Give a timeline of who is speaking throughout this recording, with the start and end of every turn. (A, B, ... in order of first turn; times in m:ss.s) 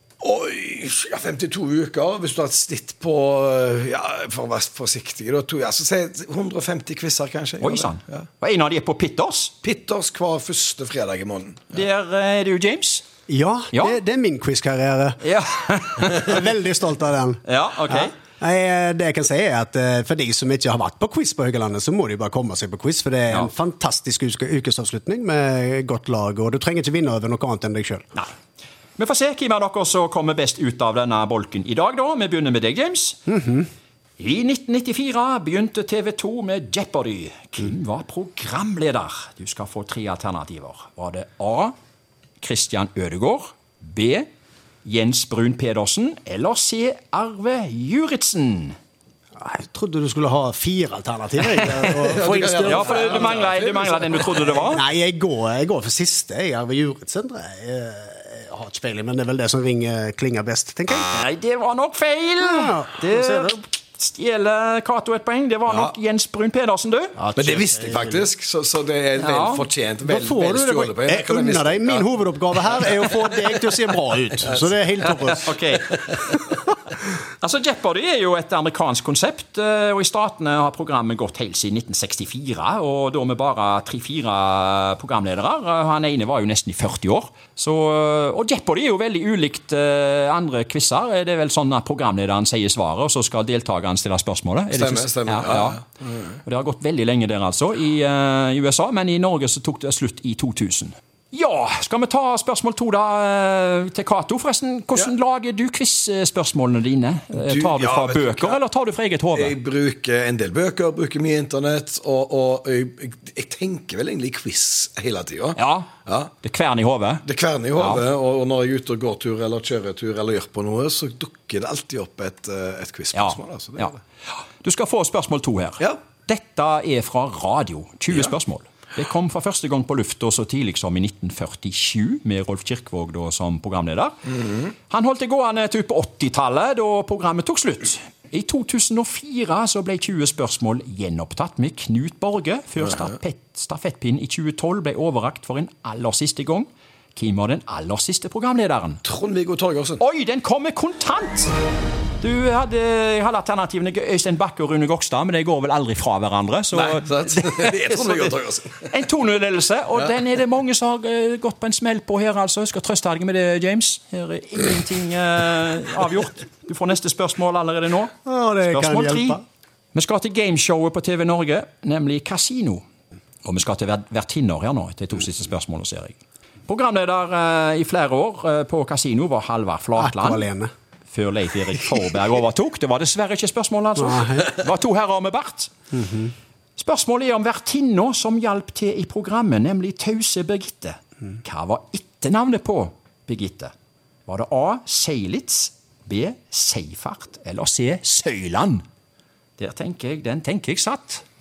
0:00.2-0:08.2 A
0:07.6-0:09.5 B
0:09.6-0:11.8 A
0:11.7-0:13.0 B
0:13.3-0:15.2 C
0:13.7-0:14.0 B
0:15.2-0:16.3 B
0:16.1-0:28.0 C
0:17.4-0:18.1 B
0:29.0-0:33.2 B
0:33.3-0:33.6 C
0:34.2-0:41.7 B
0:42.4-0:44.2 B
0:44.8-0:48.8 B
0:49.4-0:53.3 C
0:51.9-0:54.6 A
0:52.6-0:54.8 B
0:54.6-1:01.1 C
1:01.1-1:07.2 B
1:02.4-1:03.6 C
1:07.2-1:08.3 C
1:07.3-1:13.3 A
1:09.2-1:09.6 B
1:10.0-1:15.5 C
1:14.5-1:15.4 A
1:15.4-1:16.2 B
1:17.4-1:35.8 B
1:34.7-1:36.4 A
1:36.4-1:49.5 B
1:47.3-1:48.6 A
1:49.4-1:56.3 A
1:55.6-1:55.9 B
1:56.4-1:57.2 B
1:57.2-2:04.0 A
1:57.8-1:58.0 B
2:03.1-2:03.9 B
2:04.6-2:14.1 B
2:14.9-2:29.0 B
2:29.0-2:30.0 A
2:30.0-2:31.5 B
2:32.2-2:38.4 B
2:36.7-2:38.9 A
2:38.9-2:48.1 B
2:48.2-2:49.4 C
2:48.6-2:49.4 B
2:49.9-2:52.8 B
2:53.4-2:56.2 B
2:56.7-3:00.5 B
3:00.0-3:00.7 C
3:01.1-3:05.7 B
3:04.0-3:04.5 C
3:05.9-3:06.3 C
3:06.8-3:13.7 B
3:14.2-3:18.8 B
3:19.6-3:21.2 B